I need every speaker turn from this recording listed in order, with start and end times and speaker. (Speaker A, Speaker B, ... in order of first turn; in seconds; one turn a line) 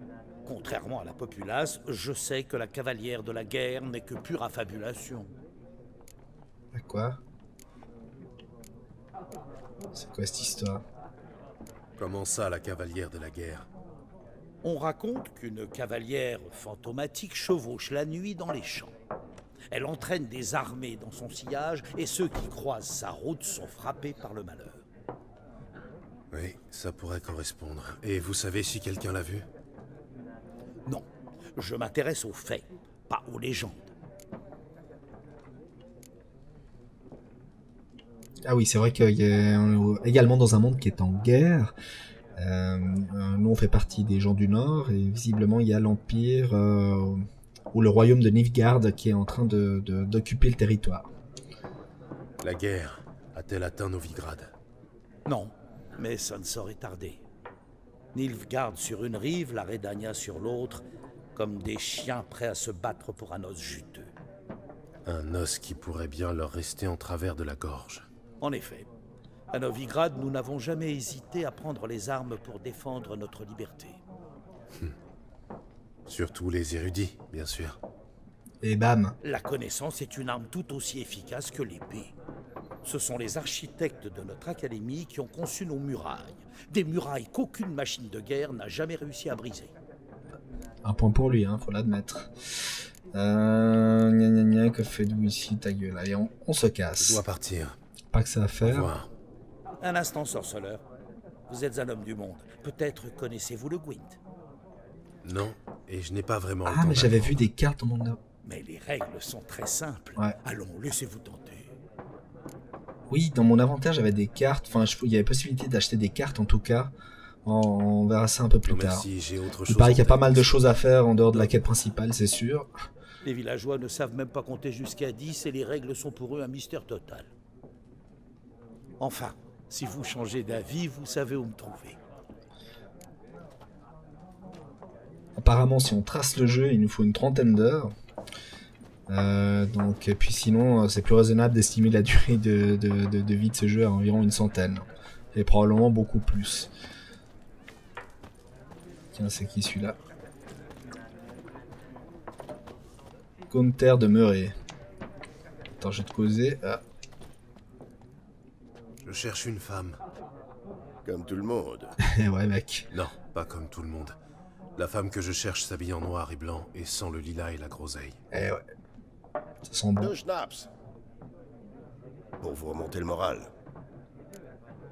Speaker A: 0.5-5.3
Speaker B: 6.7-7.2
Speaker B: 9.9-10.8
Speaker C: 12.0-13.7
Speaker A: 14.6-18.9
Speaker A: 19.7-24.8
Speaker C: 26.3-29.4
Speaker A: 30.9-33.9
Speaker B: 38.5-41.7
Speaker B: 42.4-51.1
Speaker C: 52.4-54.5
Speaker A: 55.3-57.2
Speaker A: 58.1-60.8
Speaker A: 61.3-64.1
Speaker C: 65.1-68.0
Speaker A: 68.4-68.9
Speaker A: 69.5-74.0
Speaker C: 76.1-77.8
Speaker B: 78.6-79.2
Speaker A: 79.2-82.1
Speaker A: 82.8-89.7
Speaker B: 90.8-92.3
Speaker B: 93.1-97.2
Speaker C: 97.0-97.8
Speaker B: 98.1-98.9
Speaker C: 98.6-99.1
Speaker A: 99.8-100.8
Speaker A: 101.5-104.2
Speaker C: 105.2-107.4
Speaker B: 106.7-108.2
Speaker A: 108.4-111.7
Speaker B: 113.1-116.9
Speaker B: 117.4-119.1
Speaker C: 118.7-120.7
Speaker B: 119.7-122.7
Speaker A: 123.2-127.3
Speaker A: 129.0-132.0
Speaker B: 135.4-137.9
Speaker B: 139.1-146.7
Speaker B: 149.1-150.0
Speaker B: 153.5-154.5
Speaker B: 155.8-156.8
Speaker C: 159.0-160.0
Speaker D: 161.1-161.9
Speaker B: 162.0-162.9
Speaker C: 162.9-164.2
Speaker C: 164.8-168.2
Speaker B: 168.3-168.6
Speaker B: 169.6-170.1
Speaker D: 170.0-170.7
Speaker D: 172.4-173.5